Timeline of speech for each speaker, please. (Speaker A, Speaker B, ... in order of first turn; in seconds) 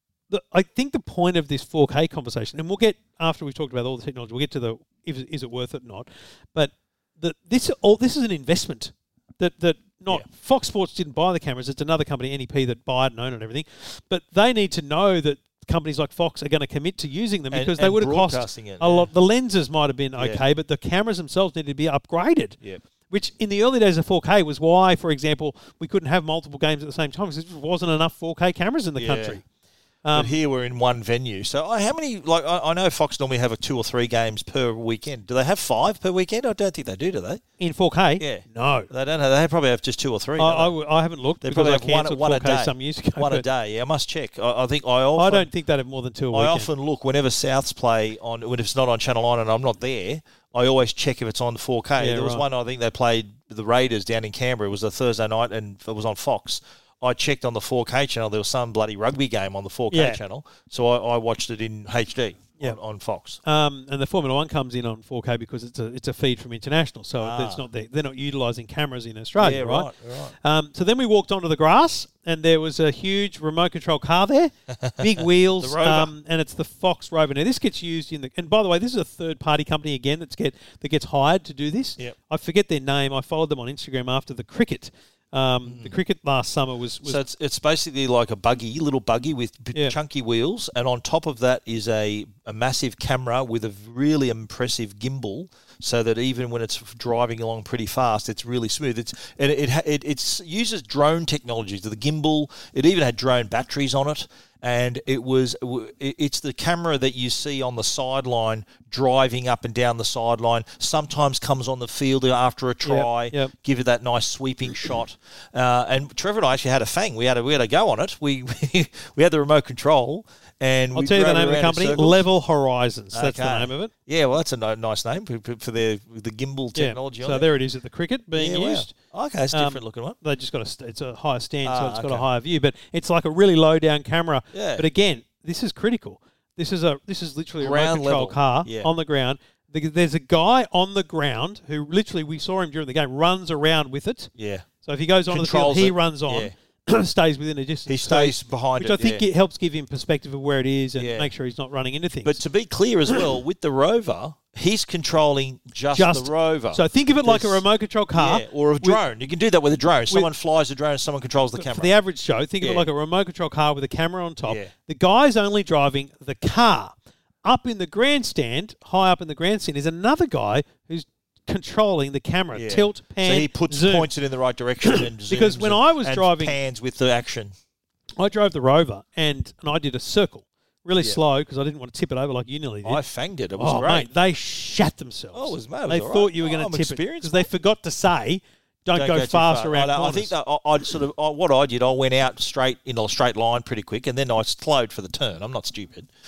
Speaker A: 0.3-22.6, 23.1-29.4, 30.0-30.4, 37.6-38.9, 40.4-43.4, 45.1-46.7, 52.0-52.4, 59.9-60.2, 63.4-87.2, 112.8-113.5, 120.9-123.9, 126.7-128.9, 129.5-144.3, 144.8-152.4, 155.9-159.0, 161.6-174.1, 174.8-176.6, 178.2-183.0, 183.6-190.3
Speaker B: 17.5-19.1, 20.2-20.4, 29.0-29.4, 30.1-37.4, 38.2-40.7, 41.4-45.5, 46.3-63.4, 67.2-67.6, 69.4-70.3, 74.7-76.1, 85.7-85.9, 87.0-122.2, 123.1-127.5, 128.3-130.2, 131.6-132.2, 134.5-134.9, 137.6-138.9, 144.3-144.7, 145.3-146.5, 147.9-149.2, 151.0-151.3, 152.2-157.6, 158.1-161.9, 162.6-162.8, 164.4-164.7, 172.5-177.5, 182.8-184.1, 185.3-187.5, 188.9-196.1